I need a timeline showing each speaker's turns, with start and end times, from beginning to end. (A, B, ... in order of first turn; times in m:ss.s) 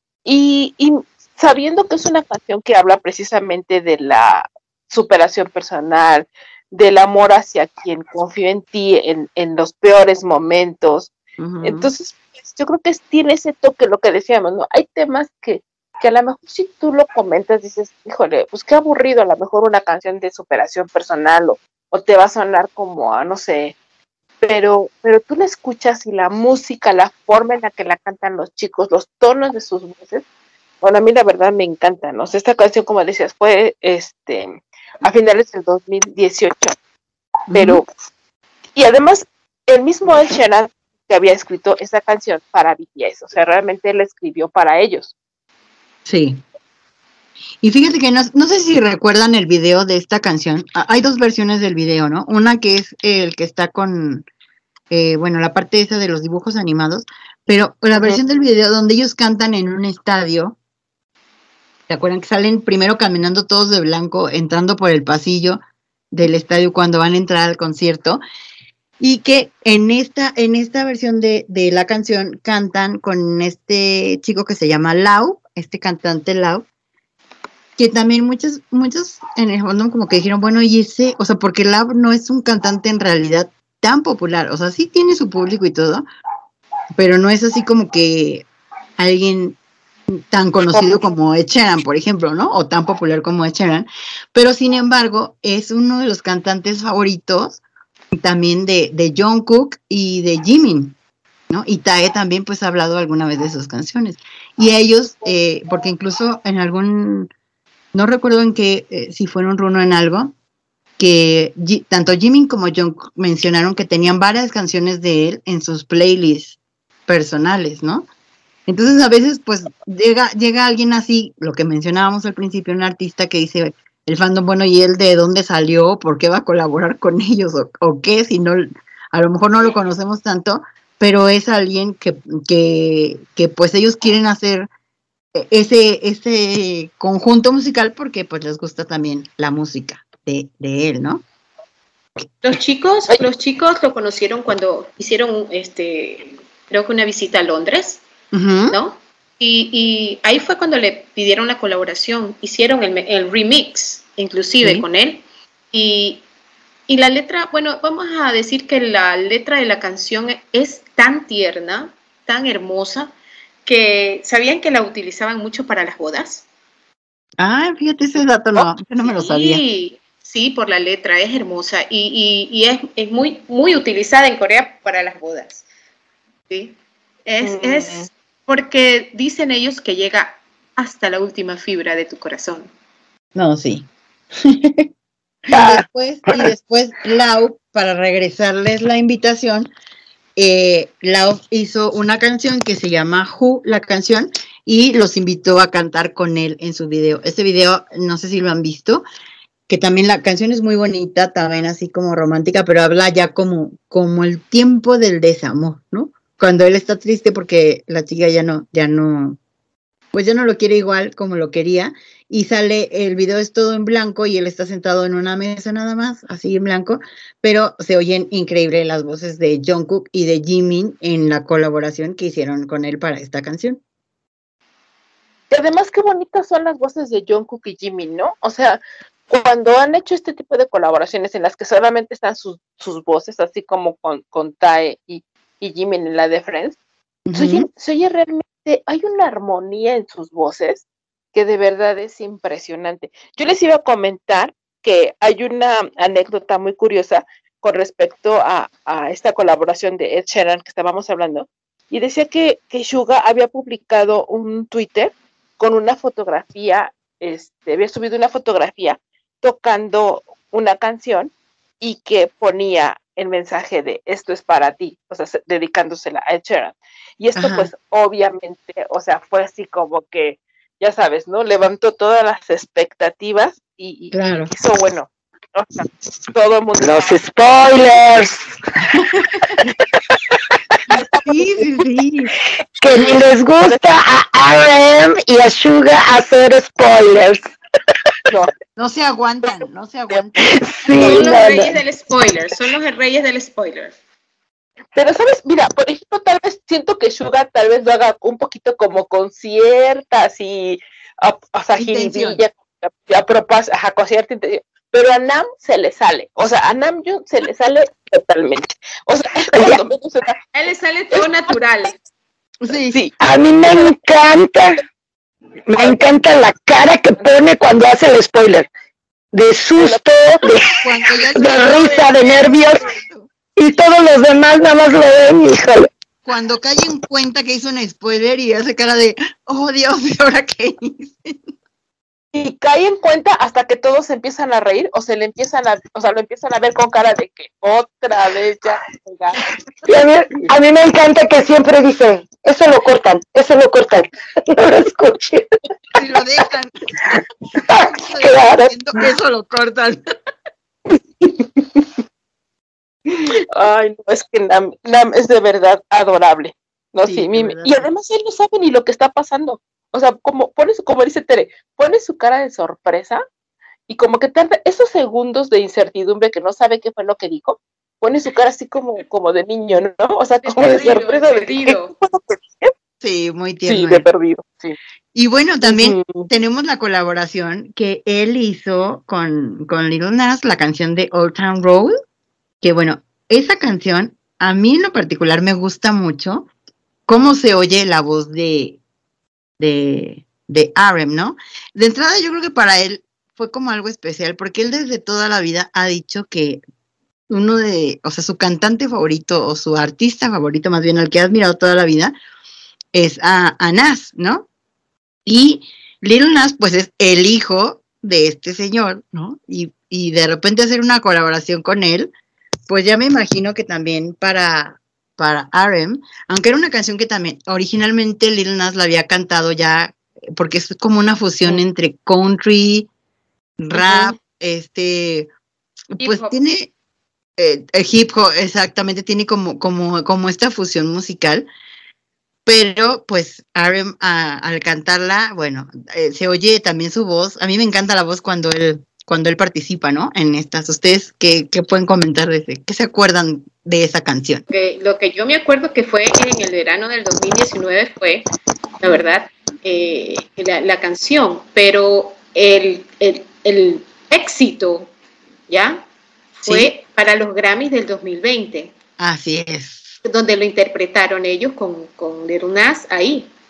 0:00.3-0:11.1 A
0:11.4-0:11.9 B
0:11.6-0:23.8 A
0:24.4-0:30.2 A
0:30.8-0:36.8 A
0:37.5-0:37.8 B
0:37.5-0:37.8 A
0:38.8-0:45.1 A
0:46.0-0:46.4 B
0:47.6-0:54.3 B
0:54.9-1:00.6 B
1:01.9-1:08.2 B
1:09.0-1:16.6 B
1:17.8-1:26.1 B
1:27.0-1:28.5 B
1:29.0-1:29.6 B
1:30.1-1:37.6 B
1:30.7-1:31.0 A
1:38.1-1:41.0 B
1:41.5-1:47.3 B
1:47.9-1:50.3 B
1:51.0-1:58.1 B
1:58.7-2:14.7 B
2:15.3-2:21.2 B
2:22.4-2:28.0 C
2:28.3-2:28.8 B
2:28.7-2:36.2 C
2:36.9-2:43.1 C
2:43.7-2:46.4 C
2:47.4-2:49.6 B
2:49.0-2:55.6 C
2:56.5-3:02.7 C
2:57.4-2:58.1 A
3:03.4-3:04.9 B
3:05.5-3:09.7 B
3:05.5-3:06.5 D
3:10.4-3:19.0 B
3:19.7-3:29.4 B
3:30.1-3:43.8 B
3:45.5-3:56.8 A
3:57.3-3:57.7 B
3:57.3-4:37.2 A
4:27.4-4:27.7 B
4:34.1-4:34.5 B
4:36.8-4:39.7 D
4:39.0-4:39.2 B
4:40.9-4:41.3 A
4:41.2-4:42.3 B
4:42.8-4:47.4 D
4:48.8-4:50.6 B
4:50.4-4:51.8 D
4:50.9-4:53.9 C
4:55.0-5:10.4 A
5:01.8-5:02.4 B
5:09.5-5:09.8 D
5:10.5-5:12.0 C
5:12.6-5:13.0 B
5:13.2-5:14.8 D
5:15.7-5:18.7 D
5:19.3-5:22.9 D
5:20.8-5:23.3 B
5:21.7-5:22.1 C
5:23.6-5:25.9 D
5:26.3-5:31.4 B
5:32.3-5:39.5 A
5:39.8-5:45.5 D
5:46.0-5:46.7 B
5:47.6-5:48.7 D
5:47.9-5:50.0 B
5:53.5-6:03.2 A
5:57.0-5:57.9 B
6:03.9-6:12.7 A
6:10.4-6:12.0 C
6:13.0-6:14.1 B
6:13.7-6:14.8 A
6:15.2-6:22.0 B
6:15.6-6:16.3 A
6:22.6-6:26.5 B
6:27.1-6:28.8 B
6:29.6-6:36.6 B
6:37.3-6:42.2 B
6:42.9-6:44.5 B
6:45.3-6:52.1 B
6:52.7-7:02.9 B
7:03.6-7:05.3 B
7:03.8-7:04.2 A
7:06.0-7:06.4 C
7:06.0-7:06.7 B
7:07.4-7:11.5 B
7:12.5-7:24.4 B
7:24.5-7:28.2 C
7:28.8-7:34.9 C
7:35.5-7:35.8 C
7:36.4-7:38.7 C
7:36.4-7:36.7 B
7:39.0-7:40.0 B
7:40.0-7:43.3 C